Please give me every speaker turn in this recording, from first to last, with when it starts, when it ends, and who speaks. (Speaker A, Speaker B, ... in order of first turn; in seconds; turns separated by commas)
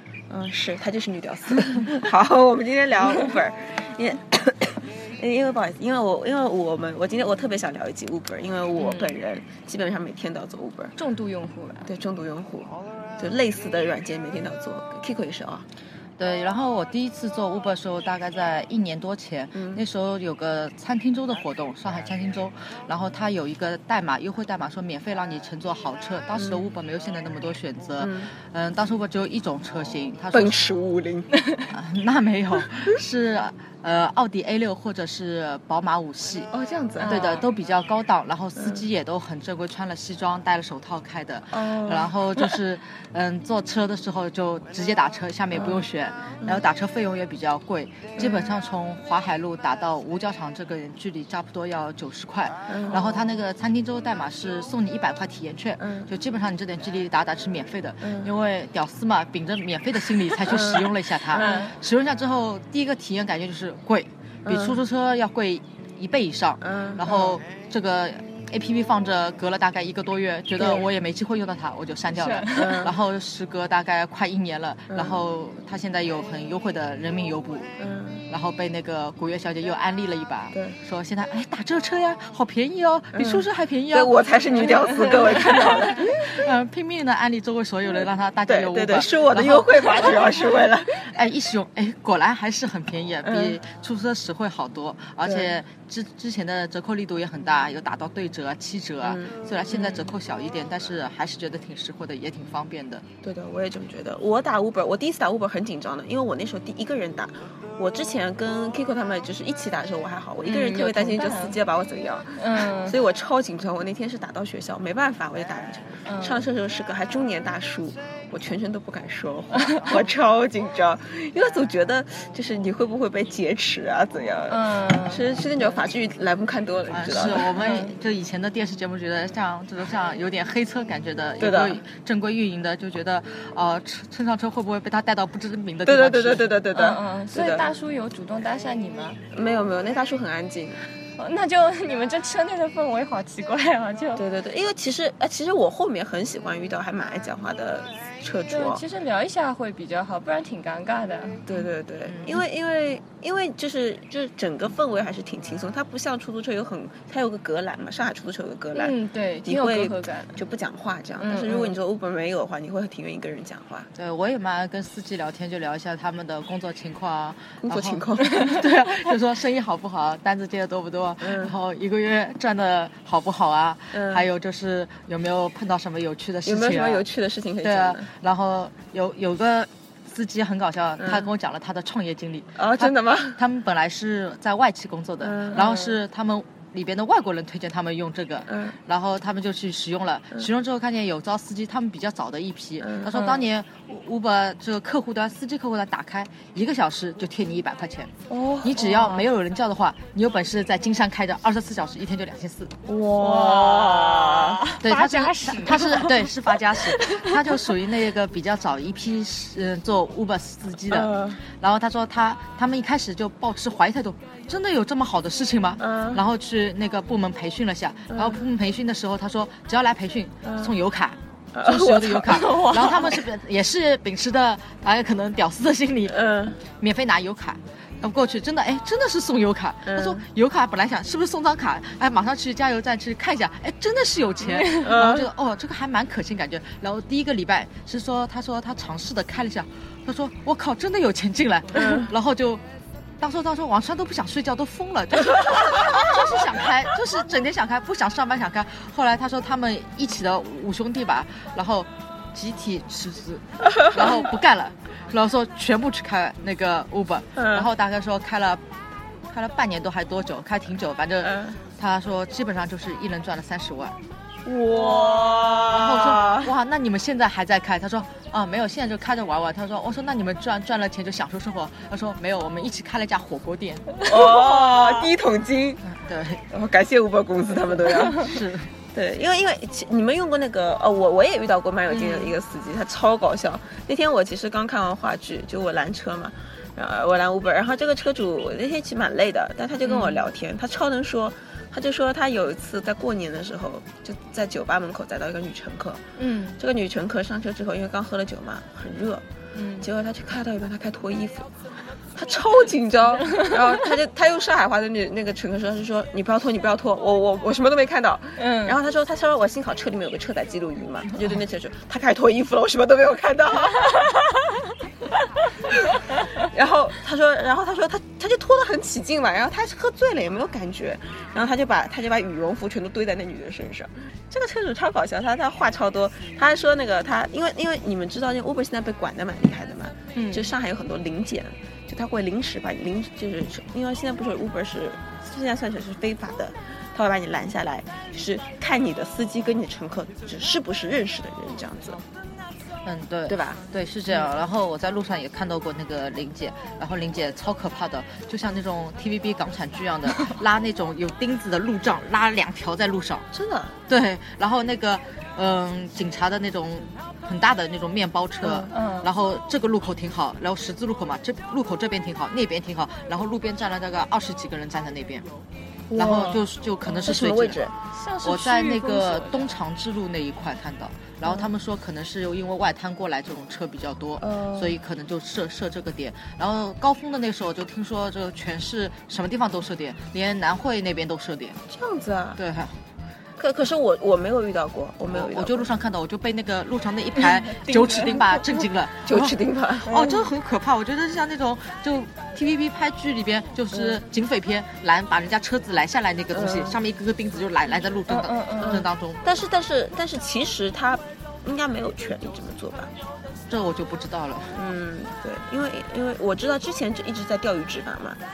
Speaker A: 0.3-11.0, Speaker B: 8.8-9.1, Speaker B: 11.0-11.9, Speaker A: 11.9-15.7, Speaker C: 16.2-30.6, Speaker A: 19.6-19.8, Speaker A: 28.0-28.3, Speaker A: 30.3-31.3, Speaker C: 31.7-36.5, Speaker A: 36.5-37.1, Speaker B: 37.0-37.5, Speaker C: 37.0-77.7, Speaker A: 41.5-42.1, Speaker A: 45.6-45.8, Speaker A: 48.2-48.5, Speaker A: 52.7-53.1, Speaker A: 55.8-56.1, Speaker A: 58.0-58.3, Speaker A: 60.4-61.7, Speaker B: 61.4-61.7, Speaker A: 64.5-64.8, Speaker A: 66.6-67.4, Speaker A: 70.6-70.9, Speaker B: 72.1-72.8, Speaker A: 72.5-72.9, Speaker A: 74.9-75.2, Speaker A: 77.8-78.2, Speaker C: 78.3-84.2, Speaker A: 80.5-80.8, Speaker A: 83.1-86.4, Speaker C: 85.3-90.3, Speaker A: 88.5-91.1, Speaker C: 91.0-103.0, Speaker A: 93.2-93.6, Speaker A: 95.2-95.5, Speaker A: 99.0-100.0, Speaker A: 103.2-127.6, Speaker B: 110.4-111.6, Speaker B: 112.4-113.0, Speaker B: 116.1-116.5, Speaker B: 124.5-125.4, Speaker C: 126.9-136.5, Speaker B: 127.5-127.9, Speaker A: 131.4-131.8, Speaker A: 135.9-137.7, Speaker B: 136.7-139.2, Speaker A: 139.3-140.8, Speaker B: 141.2-144.2, Speaker A: 144.2-148.8, Speaker B: 148.5-151.6, Speaker A: 151.5-163.9, Speaker C: 152.1-152.4, Speaker B: 158.7-160.4, Speaker B: 161.2-161.7, Speaker C: 163.9-177.1, Speaker A: 167.6-168.6, Speaker A: 171.2-171.5, Speaker A: 173.9-174.3, Speaker A: 176.5-178.1, Speaker C: 177.6-198.1, Speaker A: 181.0-181.3, Speaker A: 182.6-183.4, Speaker A: 185.2-185.8, Speaker A: 188.5-188.8, Speaker A: 192.8-193.4, Speaker A: 198.3-199.0, Speaker C: 198.6-202.8, Speaker B: 198.9-199.2, Speaker A: 202.9-204.6, Speaker B: 203.2-207.7, Speaker C: 204.8-242.6, Speaker A: 210.9-211.4, Speaker A: 215.8-216.2, Speaker A: 218.1-218.4, Speaker A: 220.4-220.7, Speaker A: 221.5-222.8, Speaker B: 222.2-223.2, Speaker A: 226.1-226.6, Speaker A: 229.8-230.2, Speaker A: 234.7-235.3, Speaker A: 241.8-242.1, Speaker C: 243.2-258.6, Speaker A: 257.4-257.7, Speaker C: 259.3-264.0, Speaker A: 261.2-261.6, Speaker A: 264.4-266.5, Speaker C: 265.7-274.1, Speaker A: 274.0-275.8, Speaker C: 275.9-276.4, Speaker A: 276.5-278.3, Speaker C: 278.0-278.7, Speaker A: 278.9-296.0, Speaker B: 282.0-282.3, Speaker B: 289.9-290.2, Speaker B: 296.2-296.6, Speaker A: 296.6-299.2, Speaker B: 299.6-299.9, Speaker A: 299.8-301.5, Speaker A: 302.1-314.2, Speaker B: 308.4-308.8, Speaker A: 316.4-342.0, Speaker B: 330.1-330.5, Speaker C: 342.9-353.2, Speaker A: 343.3-343.6, Speaker A: 353.3-353.8, Speaker C: 353.9-365.3, Speaker A: 358.4-358.7, Speaker B: 358.7-359.1, Speaker A: 365.9-367.8, Speaker C: 365.9-367.6, Speaker B: 367.9-369.5, Speaker C: 368.2-381.6, Speaker A: 374.2-374.8, Speaker A: 381.7-382.4, Speaker C: 382.4-382.8, Speaker A: 383.4-385.7, Speaker C: 385.1-399.2, Speaker B: 387.6-388.3, Speaker A: 389.1-390.0, Speaker A: 396.3-396.8, Speaker B: 398.1-398.9, Speaker A: 398.6-402.9, Speaker C: 403.5-404.6, Speaker A: 404.5-408.2